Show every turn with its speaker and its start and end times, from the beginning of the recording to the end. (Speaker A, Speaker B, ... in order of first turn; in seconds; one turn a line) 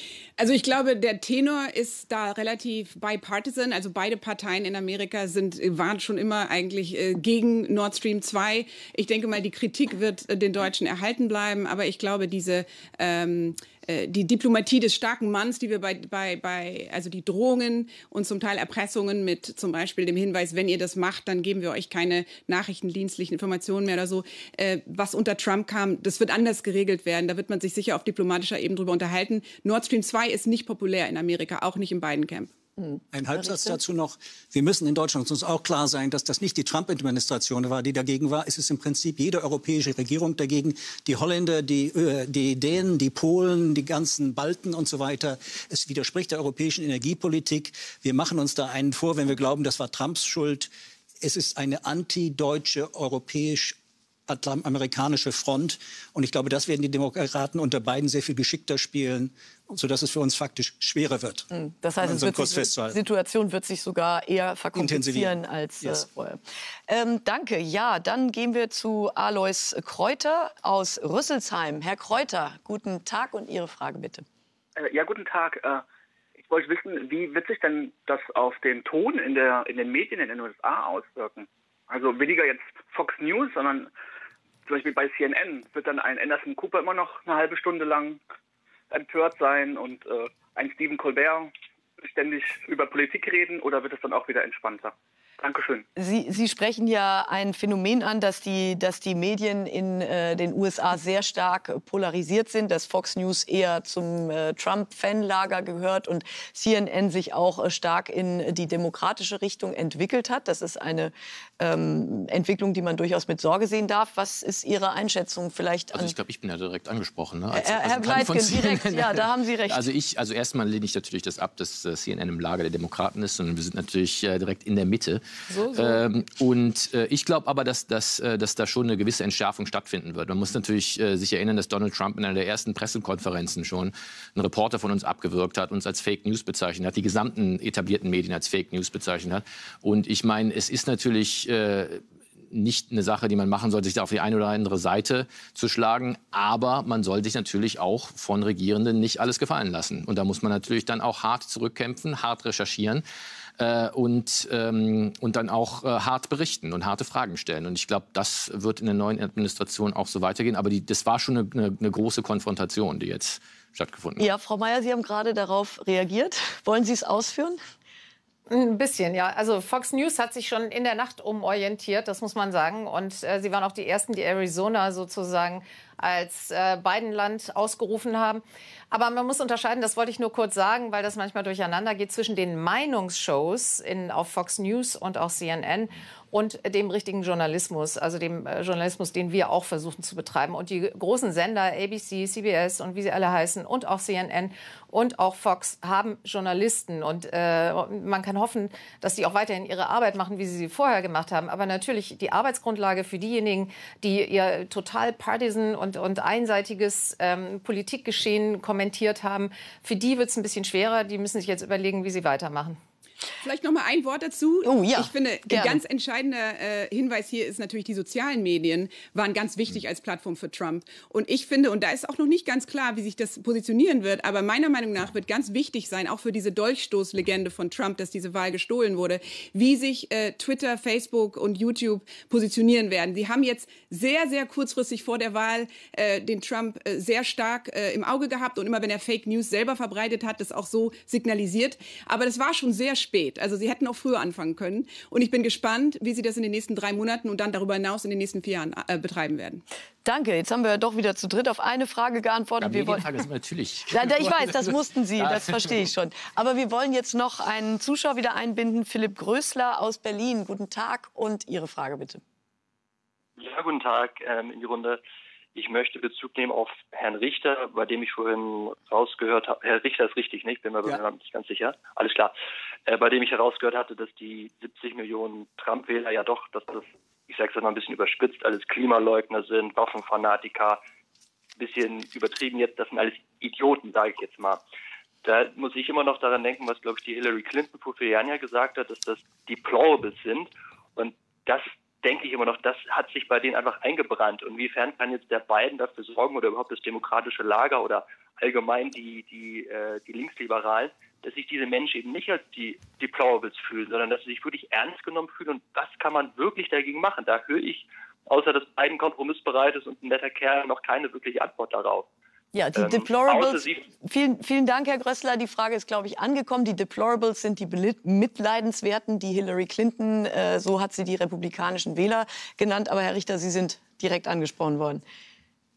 Speaker A: 0.4-32.5
Speaker B: 32.8-33.8
Speaker C: 33.1-50.7
Speaker C: 51.2-61.5
Speaker B: 61.5-74.2
Speaker C: 62.0-63.0
Speaker C: 64.8-66.0
Speaker D: 74.8-75.8
Speaker D: 76.4-83.9
Speaker D: 84.7-88.2
Speaker D: 88.9-95.8
Speaker B: 96.0-116.1
Speaker E: 115.9-153.0
Speaker B: 117.5-119.9
Speaker F: 125.5-126.0
Speaker E: 153.6-164.2
Speaker B: 164.2-167.6
Speaker F: 168.5-212.8
Speaker A: 213.4-249.6
Speaker B: 214.7-215.8
Speaker B: 250.1-253.1
Speaker E: 252.6-255.8
Speaker B: 253.9-262.2
Speaker G: 263.4-265.0
Speaker G: 265.6-272.3
Speaker G: 272.9-280.8
Speaker G: 281.6-284.6
Speaker G: 285.2-312.1
Speaker B: 312.5-325.0
Speaker G: 312.7-313.9